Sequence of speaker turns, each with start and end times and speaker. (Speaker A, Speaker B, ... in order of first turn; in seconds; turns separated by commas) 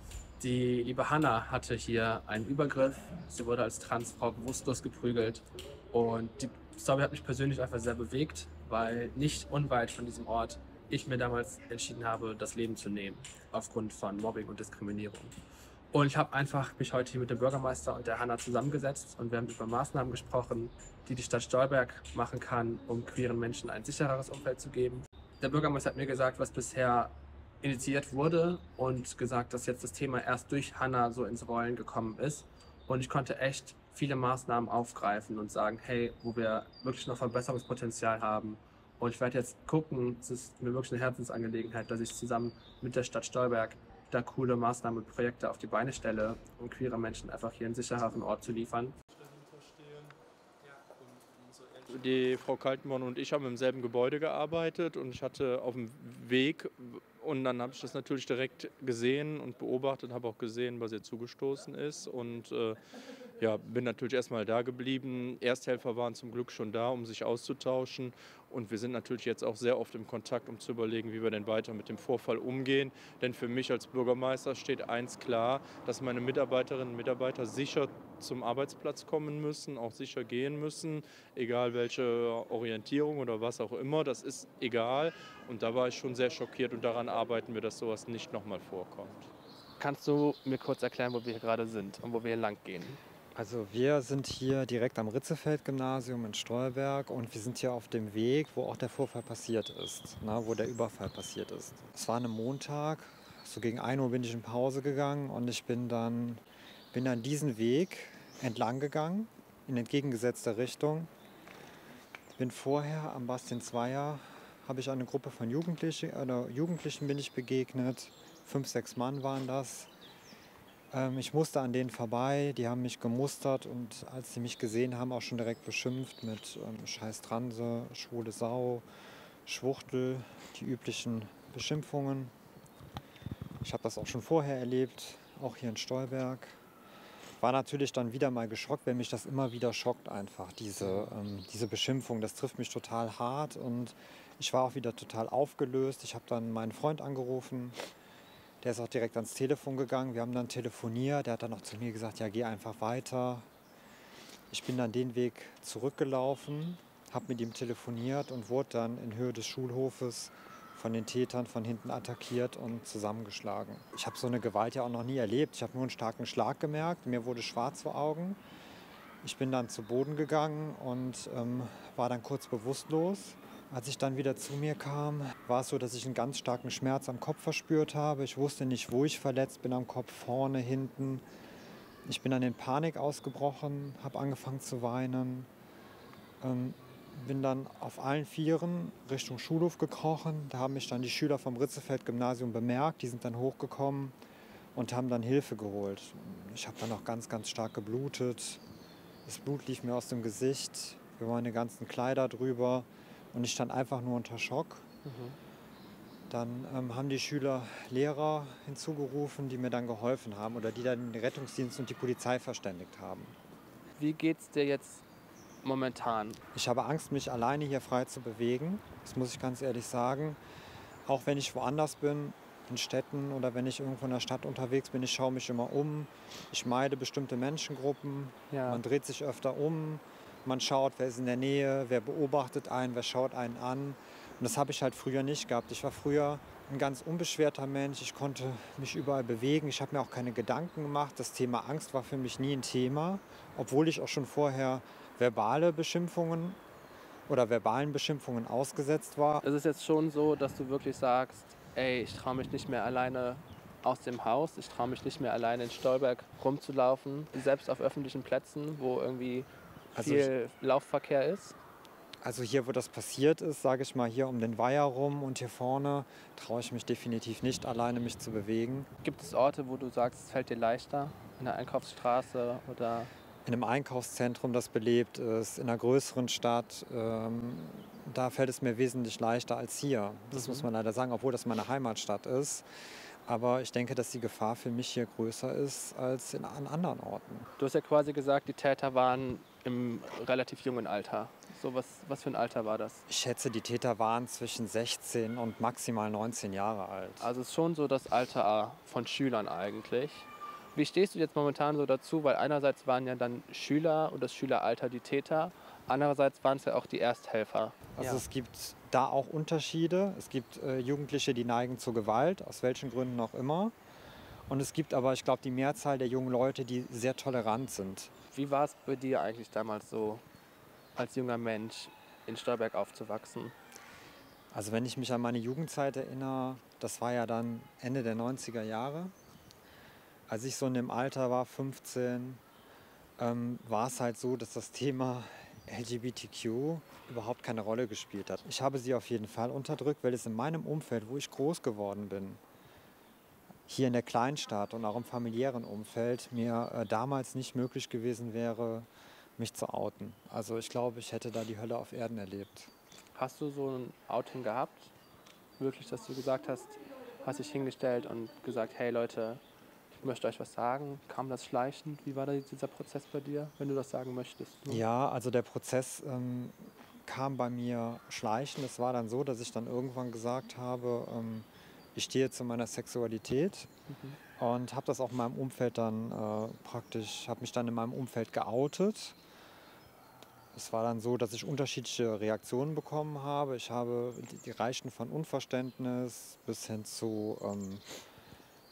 Speaker A: 0.4-15.3, Speaker A: 15.9-48.9, Speaker B: 49.2-50.1, Speaker B: 51.0-62.8, Speaker B: 63.4-89.3, Speaker A: 89.8-93.0, Speaker C: 93.3-106.4, Speaker C: 106.9-111.1, Speaker C: 112.3-119.9, Speaker C: 120.9-128.8, Speaker C: 129.4-132.3, Speaker C: 133.6-136.6, Speaker C: 137.4-147.8, Speaker A: 140.8-141.1, Speaker C: 148.6-153.5, Speaker C: 154.5-168.4, Speaker C: 169.2-181.2, Speaker C: 182.1-185.5, Speaker C: 186.4-194.2, Speaker C: 194.7-198.6, Speaker C: 199.2-204.8, Speaker A: 205.0-205.3, Speaker C: 206.3-213.3, Speaker A: 214.0-215.0, Speaker A: 215.6-216.4, Speaker C: 216.5-220.4, Speaker C: 221.1-246.6, Speaker A: 228.5-228.8, Speaker C: 247.3-249.4, Speaker A: 249.4-261.6, Speaker C: 259.9-260.3, Speaker C: 262.2-268.9, Speaker A: 269.0-273.1, Speaker C: 273.4-282.6, Speaker A: 280.3-280.7, Speaker C: 283.3-287.5, Speaker A: 287.6-293.0, Speaker C: 293.1-297.3, Speaker A: 297.2-308.2, Speaker C: 307.9-313.7, Speaker C: 314.5-318.1, Speaker A: 318.3-320.2, Speaker A: 320.9-323.5, Speaker C: 324.5-329.1, Speaker C: 330.3-332.4, Speaker C: 333.2-342.4, Speaker C: 343.7-352.7, Speaker A: 353.1-354.9, Speaker A: 355.6-359.4, Speaker A: 359.9-364.8, Speaker C: 364.7-373.7, Speaker A: 373.9-374.2, Speaker C: 374.4-379.1, Speaker C: 380.5-387.8